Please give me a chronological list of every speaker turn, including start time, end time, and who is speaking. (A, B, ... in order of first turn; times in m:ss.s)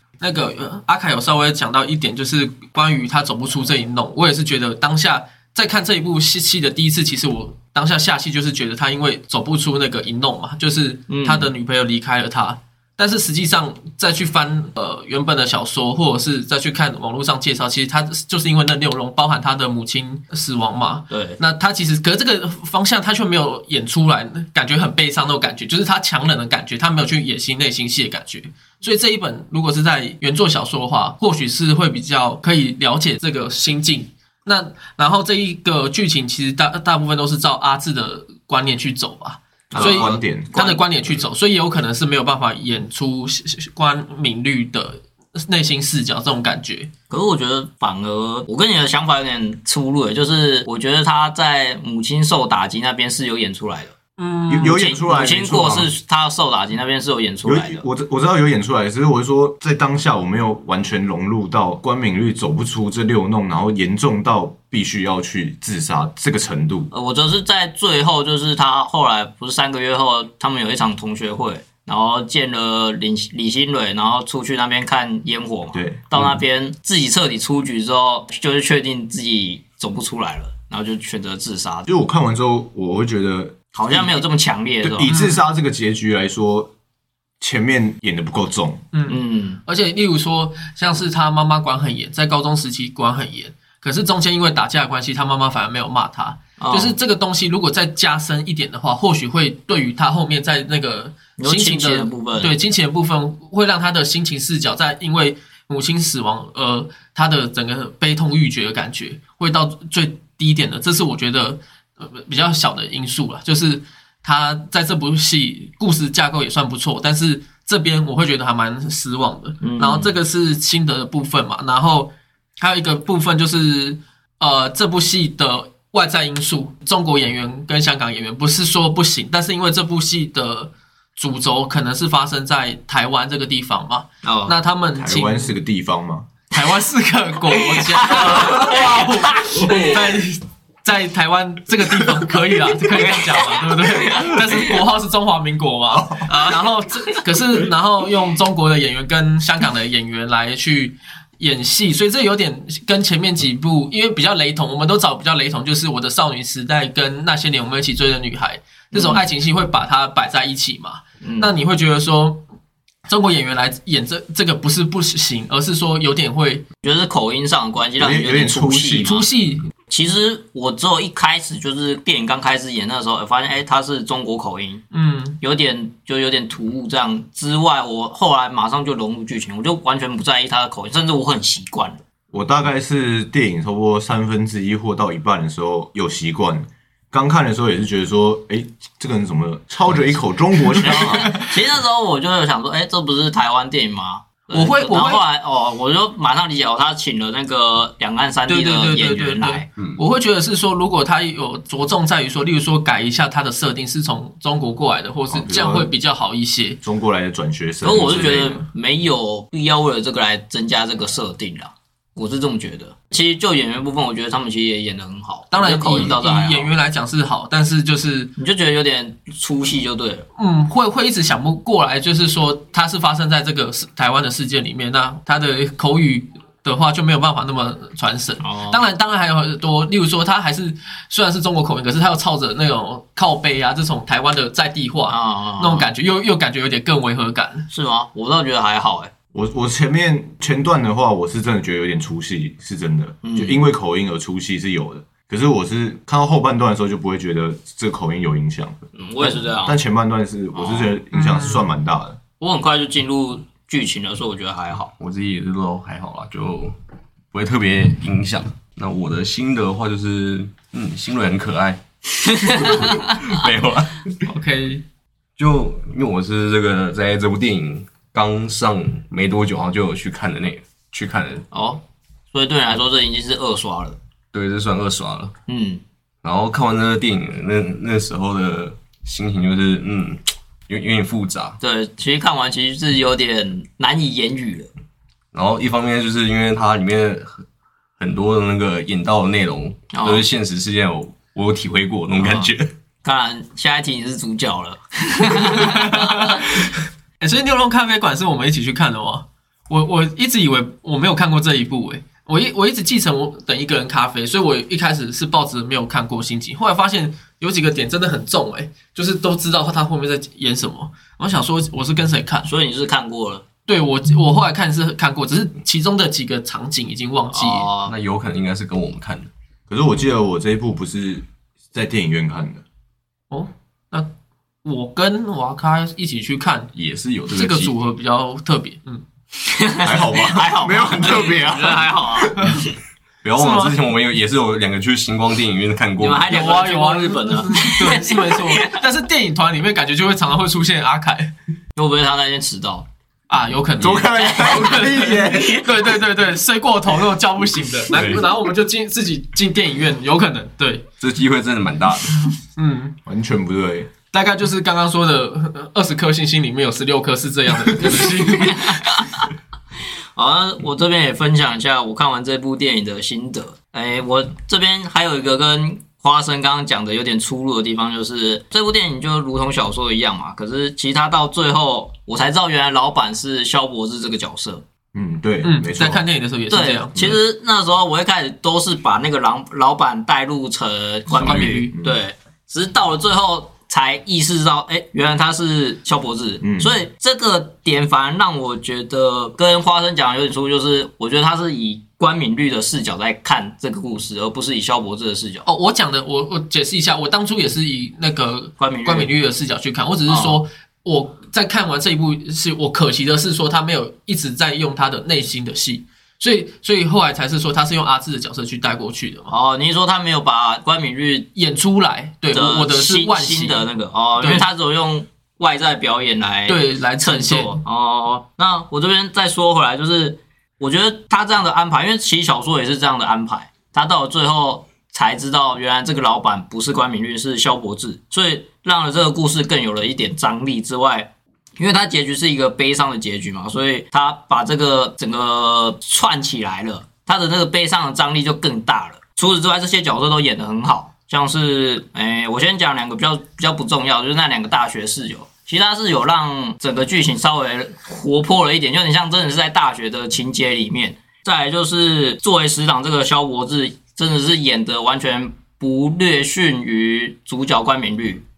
0:00.2-0:46.9 A
0:11.1-0:11.5 B
0:21.1-0:21.4 B
0:39.7-0:40.8 B
0:39.7-0:40.6 C
0:47.1-0:53.9 B
0:54.2-0:54.8 A
0:54.5-0:55.9 C
0:54.6-0:57.8 B
0:57.4-1:06.9 C
1:06.9-1:21.9 B
1:15.7-1:16.4 C
1:21.9-1:24.2 C
1:23.7-1:25.1 B
1:24.8-1:26.7 C
1:25.1-1:25.4 A
1:27.4-1:28.8 C
1:28.9-2:15.6 A
1:29.1-1:29.6 B
1:36.6-1:37.0 B
1:41.4-1:42.5 B
1:59.6-2:00.1 B
2:14.2-2:14.6 B
2:15.0-2:16.3 C
2:16.5-2:42.4 A
2:17.8-2:19.9 B
2:22.9-2:24.7 B
2:26.3-2:27.2 B
2:38.9-2:39.2 B
2:41.2-2:41.5 B
2:43.1-2:46.6 A
2:46.8-2:49.2 B
2:48.0-2:49.2 C
2:49.0-2:49.7 A
2:49.9-2:54.8 B
2:54.9-2:55.4 A
2:55.4-3:02.0 B
3:02.3-3:11.3 C
3:10.8-3:19.7 B
3:14.5-3:15.2 A
3:18.5-3:26.8 A
3:25.3-3:25.9 C
3:26.8-3:28.6 C
3:27.8-3:36.7 B
3:35.5-3:38.3 A
3:38.4-3:40.3 B
3:40.4-3:57.7 A
3:48.4-3:48.8 B
3:55.1-3:55.9 B
3:57.7-3:59.1 B
3:59.3-4:12.2 C
4:03.2-4:03.6 B
4:09.0-4:09.8 B
4:10.6-4:10.9 B
4:11.1-4:11.7 A
4:12.4-4:14.9 B
4:15.0-4:16.7 D
4:17.3-4:21.8 D
4:22.3-4:23.2 B
4:22.4-4:24.2 D
4:24.2-4:24.8 A
4:25.4-4:31.5 D
4:31.5-4:34.0 B
4:34.3-4:35.3 D
4:35.5-4:35.8 B
4:36.2-4:41.6 D
4:41.6-4:44.7 B
4:45.3-4:47.4 D
4:48.0-4:52.7 D
4:49.9-4:50.2 B
4:52.2-4:52.5 B
4:53.0-4:56.6 B
4:55.4-5:12.5 A
5:12.4-5:13.4 B
5:13.7-5:17.7 A
5:17.3-5:17.9 B
5:17.8-5:19.3 D
5:19.7-5:22.6 C
5:23.3-5:24.1 A
5:24.6-5:26.7 A
5:26.8-5:27.7 D
5:27.3-5:29.0 A
5:29.4-5:32.4 B
5:29.8-5:32.4 C
5:33.2-5:36.3 D
5:33.4-5:33.8 A
5:36.0-5:38.8 B
5:36.3-5:41.3 A
5:41.8-5:42.9 B
5:43.3-5:50.8 A
5:43.8-5:45.8 C
5:44.2-5:44.9 B
5:47.9-5:48.3 D
5:51.0-5:52.3 D
5:52.6-5:53.0 A
5:53.1-5:53.9 C
5:54.1-5:58.8 A
5:58.0-5:59.3 B
6:00.2-6:14.6 B
6:14.9-6:16.0 C
6:15.4-6:17.2 A
6:16.5-6:35.5 B
6:21.1-6:21.7 A
6:21.2-6:22.0 C
6:26.4-6:26.7 C
6:35.5-6:49.3 A
6:38.6-6:39.1 B
6:40.1-6:40.4 B
6:49.3-6:51.3 B
6:51.4-6:53.7 A
6:52.3-7:38.2 B
6:54.2-6:54.5 A
6:56.5-6:57.6 A